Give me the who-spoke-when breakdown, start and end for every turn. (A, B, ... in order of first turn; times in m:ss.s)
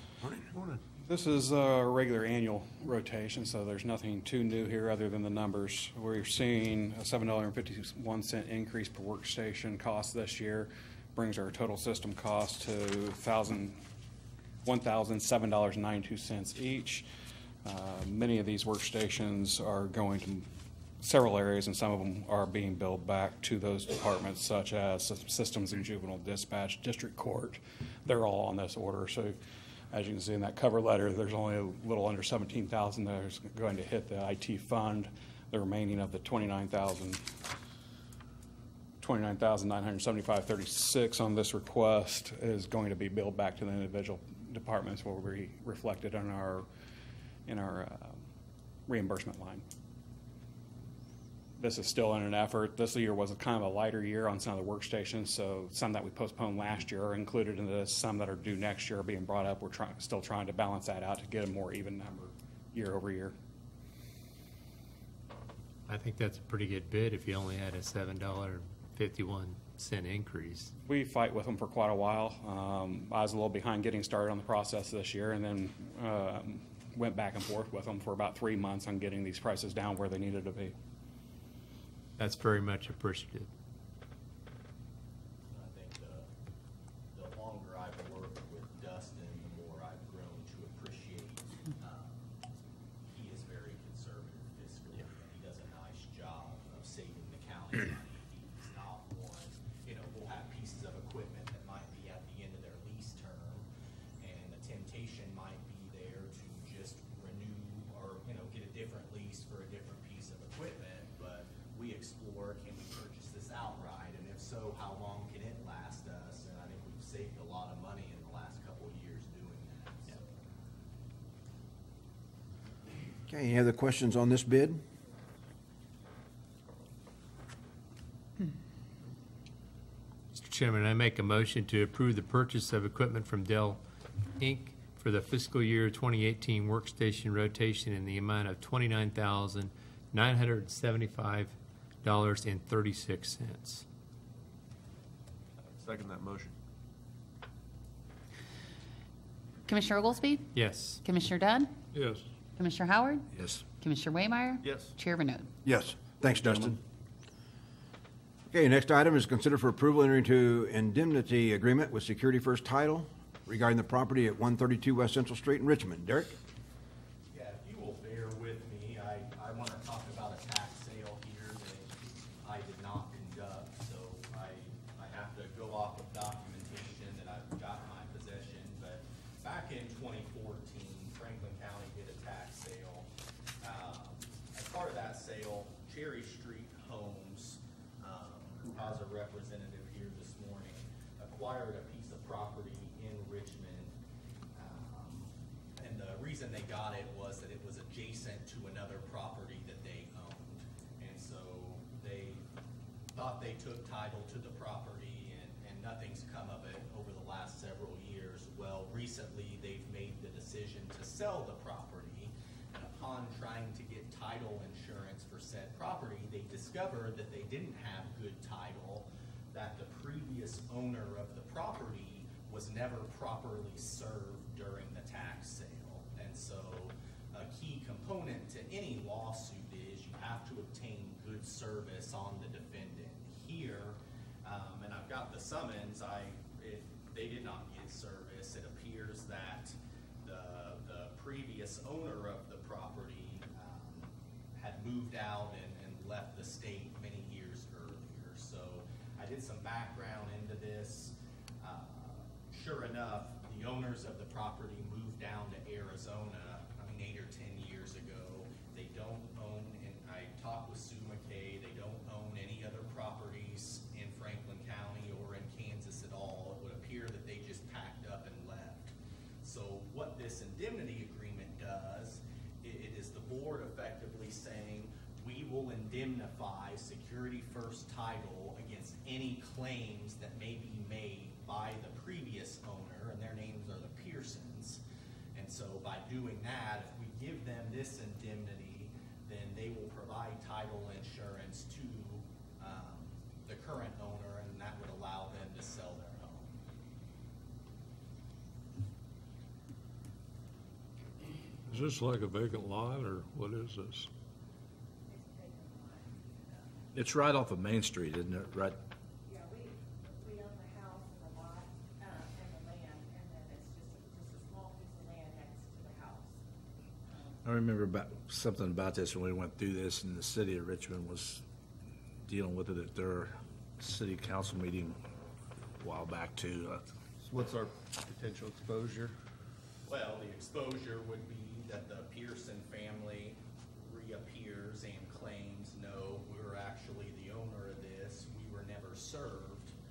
0:00.5-0:00.8 A
0:01.0-0:13.8 B
0:14.6-0:17.1 B
0:17.6-0:20.5 B
0:21.0-0:29.4 B
0:29.9-0:37.2 B
0:39.0-0:46.7 B
0:47.4-0:48.2 B
0:48.9-0:49.6 B
0:51.6-1:03.3 B
1:05.9-1:10.7 C
1:10.8-1:20.7 B
1:22.2-1:23.5 C
1:25.5-1:26.3 D
1:27.1-1:43.6 D
1:44.2-2:00.3 D
2:03.3-2:04.8 E
2:10.3-2:13.8 C
2:14.4-2:23.8 C
2:25.6-2:26.5 A
2:29.7-2:31.7 F
2:30.5-2:31.0 C
2:31.9-2:32.2 G
2:32.6-2:35.5 F
2:33.3-2:33.6 H
2:34.6-2:34.9 A
2:35.6-2:36.8 E
2:38.5-2:46.4 E
2:47.3-3:03.1 D
3:03.6-3:14.0 D
3:14.5-3:22.4 D
3:23.1-4:44.8 D
4:45.3-4:56.6 D
5:01.7-5:04.1 G
5:05.1-5:06.7 I
5:06.9-5:08.8 H
5:09.2-5:16.4 I
5:17.1-5:17.4 I
5:17.4-5:21.4 H
5:22.2-5:25.0 H
5:25.8-5:26.8 H
5:27.2-5:29.1 A
5:29.9-5:39.7 D